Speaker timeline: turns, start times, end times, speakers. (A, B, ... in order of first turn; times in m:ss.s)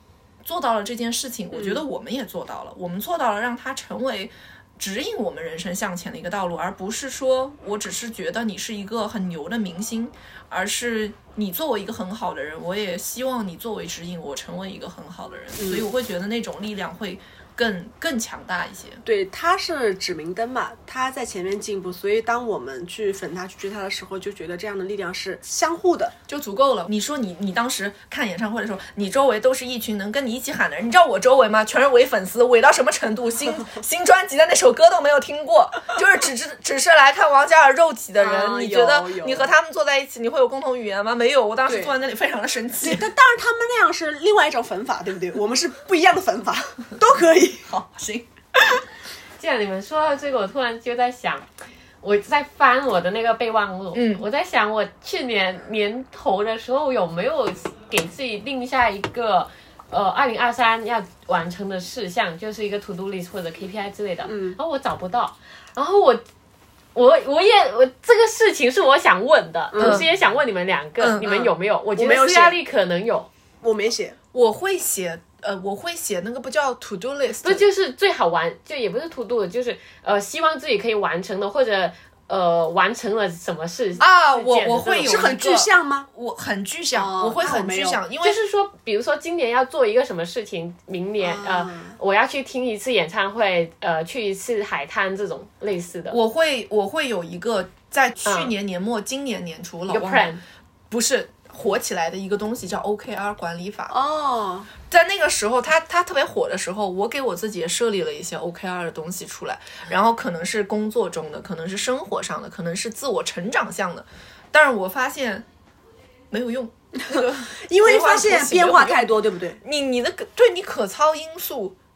0:00.4-0:19.0 A
0:01.5-0:01.8 B
0:15.6-0:15.8 B
0:19.0-0:26.1 B
0:26.3-0:43.1 A
0:38.2-0:39.5 B
0:41.7-0:41.9 B
0:42.8-0:47.7 B
0:47.6-0:48.3 A
0:49.4-0:51.4 C
0:52.0-1:06.2 C
0:53.9-0:54.2 A
1:04.2-1:04.6 B
1:06.9-1:13.3 C
1:09.7-1:10.1 B
1:09.8-1:10.1 A
1:11.0-1:11.2 A
1:11.2-1:12.6 B
1:13.6-1:14.2 B
1:14.3-1:17.7 A
1:17.4-1:25.2 C
1:24.0-1:28.4 A
1:24.9-1:26.1 B
1:26.9-1:28.0 B
1:28.2-1:36.2 C
1:31.2-1:31.9 B
1:36.1-1:40.3 A
1:38.2-1:38.5 C
1:39.9-1:40.4 C
1:40.9-1:44.0 A
1:43.9-1:44.7 B
1:44.9-1:55.4 A
1:56.3-2:01.8 A
1:57.0-1:59.6 B